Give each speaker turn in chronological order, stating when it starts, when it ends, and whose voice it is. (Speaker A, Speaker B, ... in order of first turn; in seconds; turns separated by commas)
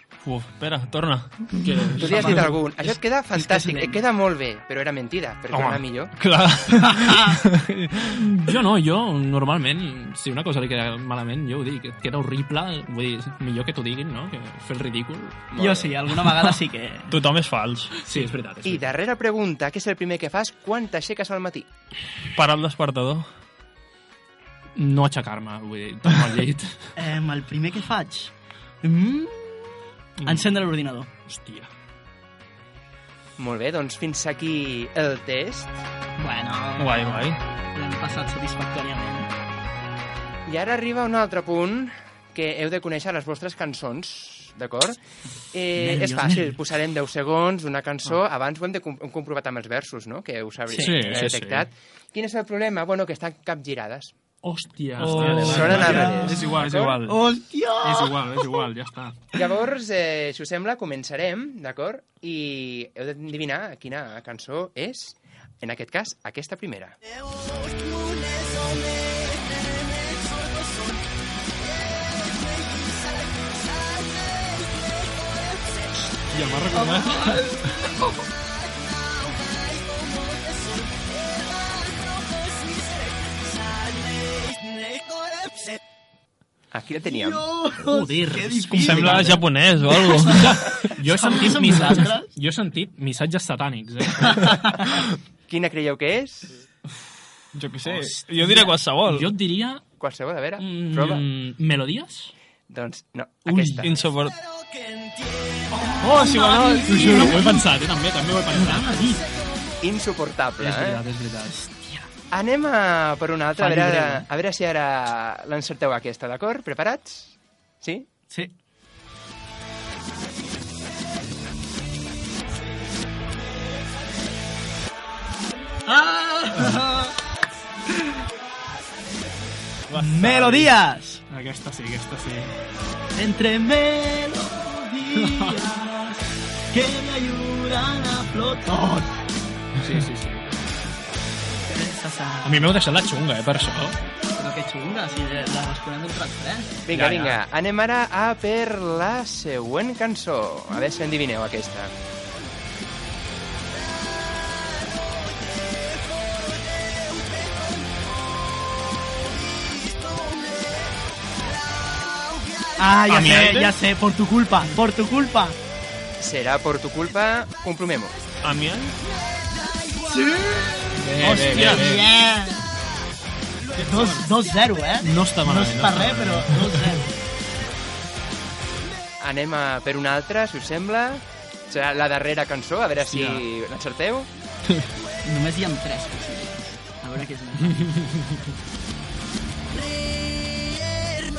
Speaker A: 0.2-1.6, Speaker B: 1.6-2.4, Speaker C: 2.0-4.0, Speaker D: 2.0-6.1, Speaker A: 5.5-8.3, Speaker C: 6.8-7.4, Speaker B: 8.2-15.4, Speaker D: 15.5-16.0, Speaker C: 15.6-17.2, Speaker A: 17.1-18.0, Speaker B: 18.1-18.9, Speaker D: 18.6-21.7, Speaker A: 22.4-23.3, Speaker B: 24.8-26.9, Speaker C: 27.0-31.1, Speaker B: 30.2-30.5, Speaker B: 31.3-31.7, Speaker D: 33.4-35.8, Speaker C: 36.2-39.3, Speaker A: 36.8-37.4, Speaker D: 40.5-45.0, Speaker D: 45.5-54.1, Speaker C: 45.8-46.6, Speaker C: 50.7-51.2, Speaker B: 50.8-51.7, Speaker B: 54.4-59.3, Speaker A: 55.0-56.4, Speaker C: 55.2-56.2, Speaker D: 55.2-57.0, Speaker C: 57.0-58.6, Speaker D: 59.3-67.0, Speaker B: 76.3-77.7, Speaker C: 76.8-78.1, Speaker D: 86.7-87.5, Speaker C: 87.1-92.3, Speaker B: 87.8-89.4, Speaker A: 88.8-90.9, Speaker B: 90.1-94.6, Speaker C: 94.2-94.9, Speaker D: 95.5-96.5, Speaker A: 97.5-99.3, Speaker B: 97.8-99.8, Speaker D: 100.0-101.2, Speaker B: 100.6-102.3, Speaker D: 102.7-104.0, Speaker B: 103.5-103.8, Speaker A: 103.8-104.3, Speaker C: 105.7-107.6, Speaker A: 106.0-107.4, Speaker B: 106.0-109.2, Speaker C: 108.5-109.3, Speaker D: 109.8-111.0, Speaker B: 110.6-111.6, Speaker C: 111.5-112.1, Speaker D: 112.3-118.1, Speaker C: 113.6-114.2, Speaker C: 125.9-127.1, Speaker B: 129.9-130.7, Speaker C: 130.0-131.2, Speaker B: 131.3-132.5, Speaker C: 133.2-139.2, Speaker B: 135.2-135.6, Speaker B: 139.8-140.5, Speaker C: 141.7-142.7, Speaker B: 142.4-144.0, Speaker C: 144.4-146.8, Speaker D: 146.9-151.9, Speaker B: 146.9-147.4, Speaker C: 162.8-165.6, Speaker A: 163.1-163.8, Speaker D: 166.2-168.2, Speaker A: 168.4-169.0, Speaker B: 170.9-172.1, Speaker C: 171.2-172.6, Speaker A: 171.3-171.9, Speaker C: 173.8-177.1, Speaker B: 175.1-176.5, Speaker A: 175.2-176.5, Speaker D: 179.2-184.3, Speaker B: 183.0-183.4, Speaker C: 185.2-187.9, Speaker B: 187.8-188.2, Speaker C: 189.9-191.2